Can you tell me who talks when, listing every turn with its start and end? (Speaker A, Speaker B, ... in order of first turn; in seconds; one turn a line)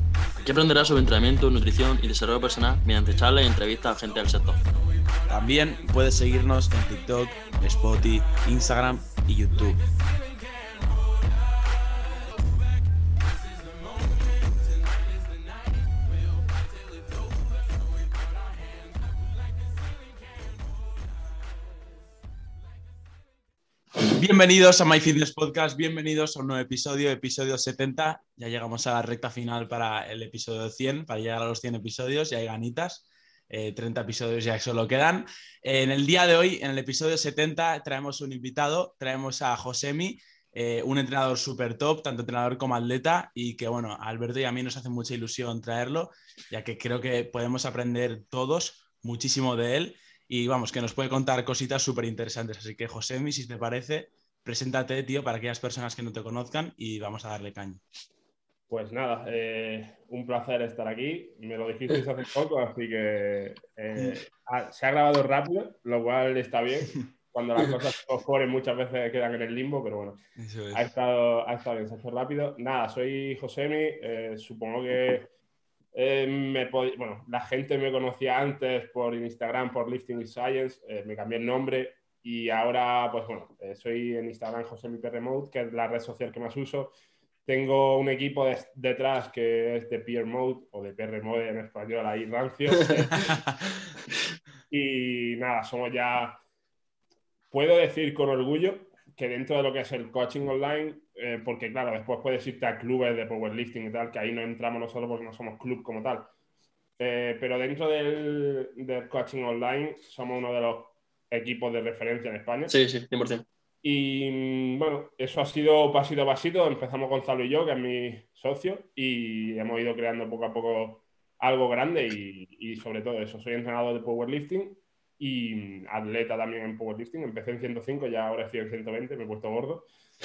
Speaker A: 0.4-4.6
Speaker B: 5.3-9.8
Speaker B: 24.0-57.8
Speaker C: 58.7-70.2
Speaker B: 70.4-70.8
Speaker C: 70.7-75.3
Speaker C: 75.9-86.9
Speaker C: 87.5-93.3
Speaker B: 93.2-93.6
Speaker C: 94.7-96.4
Speaker C: 97.5-106.3
Speaker C: 107.0-112.7
Speaker A: 112.7-113.5
Speaker C: 113.8-129.9